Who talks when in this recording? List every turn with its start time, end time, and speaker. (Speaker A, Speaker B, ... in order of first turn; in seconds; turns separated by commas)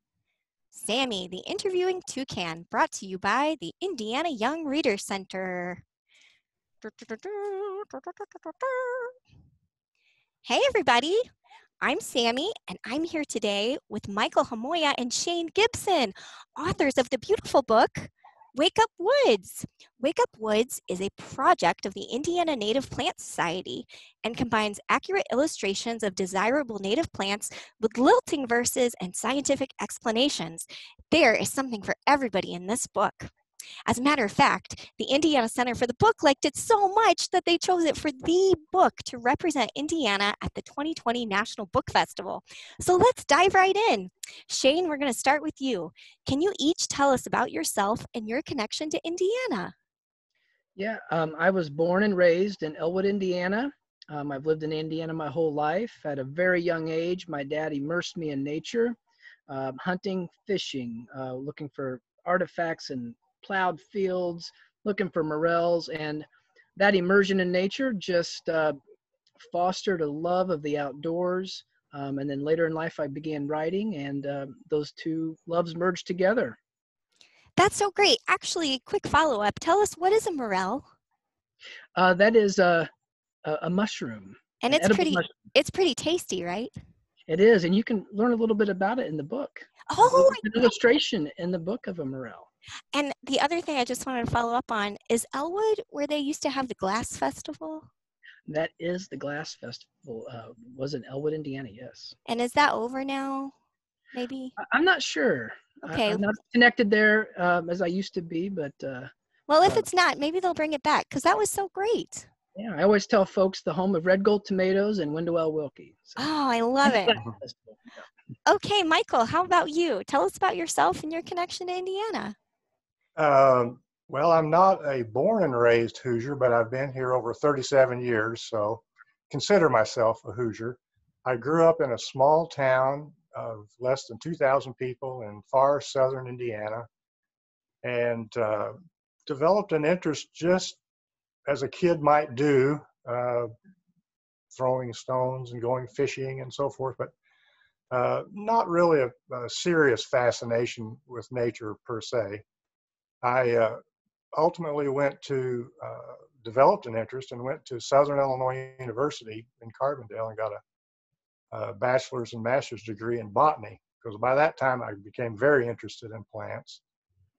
Speaker A: 0.7-5.8, Speaker A: 6.8-9.1, Speaker A: 10.4-11.2, Speaker A: 11.8-33.3, Speaker A: 33.9-49.7, Speaker B: 50.8-66.2, Speaker B: 66.8-68.8, Speaker B: 69.4-76.6, Speaker A: 77.6-80.9, Speaker B: 82.0-82.9, Speaker B: 83.5-85.4, Speaker A: 84.6-86.7, Speaker B: 87.3-92.5, Speaker A: 89.9-90.7, Speaker A: 92.9-97.9, Speaker B: 98.5-102.2, Speaker A: 102.3-103.5, Speaker A: 104.1-104.5, Speaker B: 104.6-109.1, Speaker A: 105.9-106.2, Speaker A: 109.5-112.3, Speaker B: 112.6-116.2, Speaker A: 116.2-117.2, Speaker B: 116.8-117.8, Speaker A: 118.5-122.3, Speaker C: 123.2-136.9, Speaker C: 137.8-138.7, Speaker C: 139.3-140.8, Speaker C: 141.5-143.5, Speaker C: 144.5-147.1, Speaker C: 147.9-152.4, Speaker C: 153.2-153.8, Speaker C: 154.4-160.6, Speaker C: 161.5-166.8